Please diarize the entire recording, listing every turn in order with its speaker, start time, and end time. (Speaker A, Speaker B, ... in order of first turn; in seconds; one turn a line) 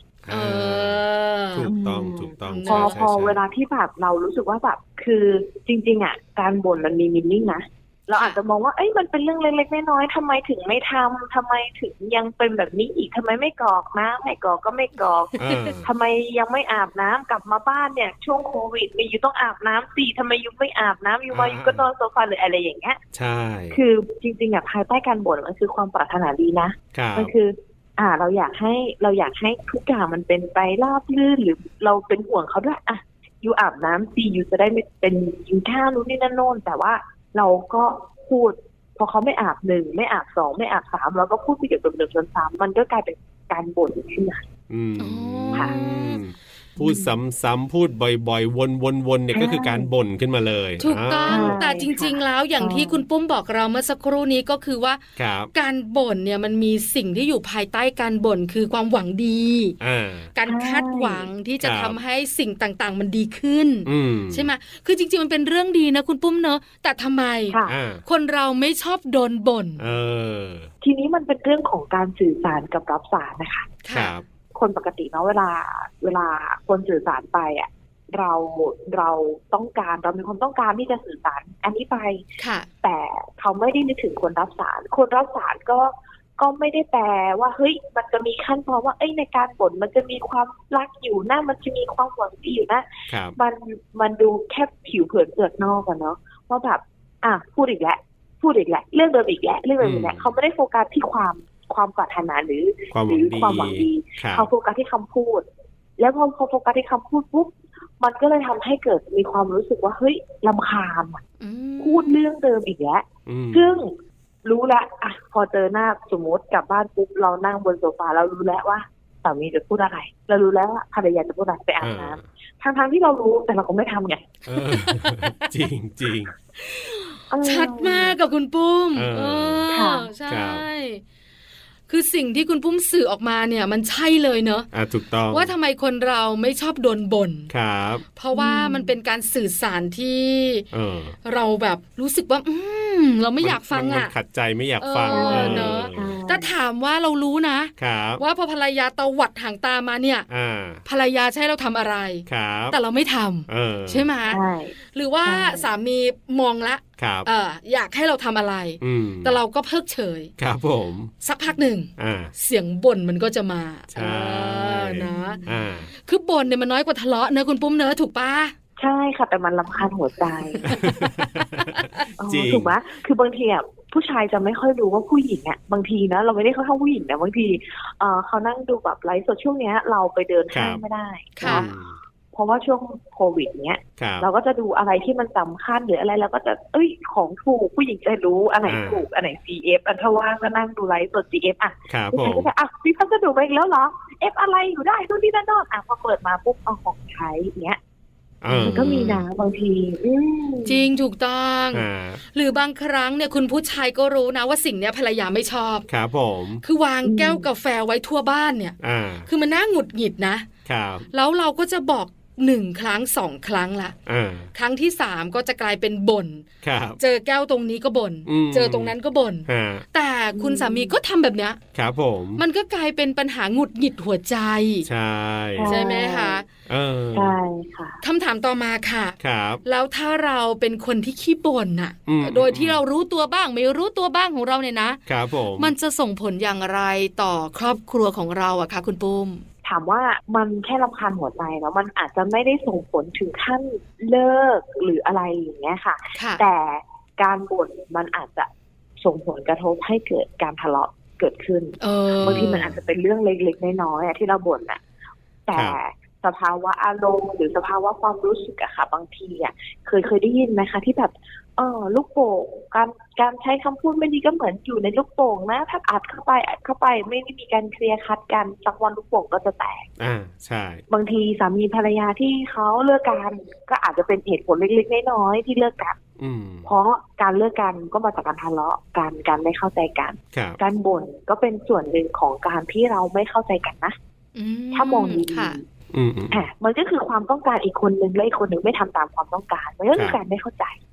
Speaker A: 0.2-3.4
Speaker B: 0.3-1.7
Speaker C: 1.6-23.0
Speaker B: 2.5-3.0
Speaker A: 15.4-15.9
Speaker B: 15.4-15.8
Speaker A: 21.3-21.9
Speaker A: 23.1-23.8
Speaker C: 23.7-44.5
Speaker A: 26.9-27.3
Speaker A: 44.7-51.6
Speaker B: 45.0-46.2
Speaker C: 46.8-47.1
Speaker C: 49.3-49.9
Speaker B: 50.8-55.0
Speaker C: 51.3-53.0
Speaker A: 55.2-55.5
Speaker B: 55.5-59.8
Speaker A: 59.8-60.3
Speaker B: 60.3-69.9
Speaker C: 60.5-61.3
Speaker A: 61.6-62.0
Speaker A: 63.9-64.5
Speaker C: 67.5-67.8
Speaker A: 67.7-68.0
Speaker A: 69.8-70.7
Speaker C: 70.8-73.8
Speaker B: 73.8-74.1
Speaker A: 73.9-74.2
Speaker C: 74.5-82.2
Speaker B: 82.4-82.7
Speaker C: 82.8-105.5
Speaker A: 93.1-93.4
Speaker A: 99.8-100.3
Speaker A: 102.9-104.5
Speaker C: 106.0-111.2
Speaker B: 111.4-112.2
Speaker C: 111.8-113.9
Speaker A: 113.3-113.8
Speaker C: 114.5-124.3
Speaker A: 121.8-122.2
Speaker A: 124.5-126.3
Speaker B: 124.6-125.5
Speaker B: 126.6-131.0
Speaker C: 127.3-128.1
Speaker A: 128.9-129.6
Speaker C: 129.7-130.1
Speaker A: 130.3-130.6
Speaker B: 131.9-134.7
Speaker A: 134.7-135.5
Speaker B: 135.3-137.5
Speaker A: 137.5-138.0
Speaker B: 138.2-140.7
Speaker C: 138.3-138.9
Speaker A: 140.7-141.2
Speaker B: 141.2-144.1
Speaker A: 143.4-146.2
Speaker B: 144.8-150.3
Speaker C: 145.1-146.5
Speaker A: 147.8-148.2
Speaker A: 150.3-150.8
Speaker B: 150.8-154.4
Speaker A: 152.3-152.8
Speaker A: 153.5-154.1
Speaker C: 154.3-155.7
Speaker B: 154.9-160.3
Speaker A: 157.0-157.3
Speaker A: 158.8-159.4
Speaker A: 160.4-161.1
Speaker B: 161.2-165.4
Speaker A: 162.0-162.3
Speaker A: 163.9-165.9
Speaker C: 165.2-165.7
Speaker B: 166.0-168.5
Speaker C: 168.8-170.8
Speaker B: 170.6-172.1
Speaker A: 170.7-172.7
Speaker C: 172.2-181.7
Speaker A: 180.5-180.8
Speaker B: 181.4-181.7
Speaker A: 181.4-182.0
Speaker C: 182.3-197.8
Speaker A: 184.0-184.3
Speaker A: 188.7-189.1
Speaker A: 191.9-192.5
Speaker A: 198.4-199.2
Speaker C: 198.5-200.8
Speaker B: 198.5-199.0
Speaker B: 200.7-205.9
Speaker A: 201.7-202.2
Speaker A: 205.9-206.6
Speaker B: 206.6-208.8
Speaker C: 207.1-207.5
Speaker A: 208.8-209.3
Speaker B: 209.3-210.5
Speaker A: 210.7-211.1
Speaker B: 211.1-213.9
Speaker A: 214.1-214.5
Speaker B: 214.6-216.5
Speaker A: 216.6-217.0
Speaker B: 217.0-221.6
Speaker A: 218.3-219.8
Speaker C: 220.3-221.0
Speaker A: 221.8-222.4
Speaker B: 222.4-224.9
Speaker A: 224.9-225.7
Speaker C: 225.6-226.4
Speaker B: 225.7-226.5
Speaker A: 226.7-227.4
Speaker C: 227.1-228.0
Speaker B: 228.0-235.0
Speaker A: 229.2-229.6
Speaker A: 232.1-232.8
Speaker A: 235.1-235.7
Speaker B: 235.6-239.4
Speaker C: 239.6-248.5
Speaker B: 246.2-246.4
Speaker C: 249.0-254.8
Speaker B: 251.8-252.7
Speaker A: 252.2-252.8
Speaker C: 255.5-269.9
Speaker A: 270.0-270.8
Speaker C: 270.9-276.0
Speaker A: 276.2-276.7
Speaker C: 276.6-284.0
Speaker B: 284.4-285.6
Speaker C: 284.7-285.6
Speaker A: 285.9-286.4
Speaker C: 286.3-290.8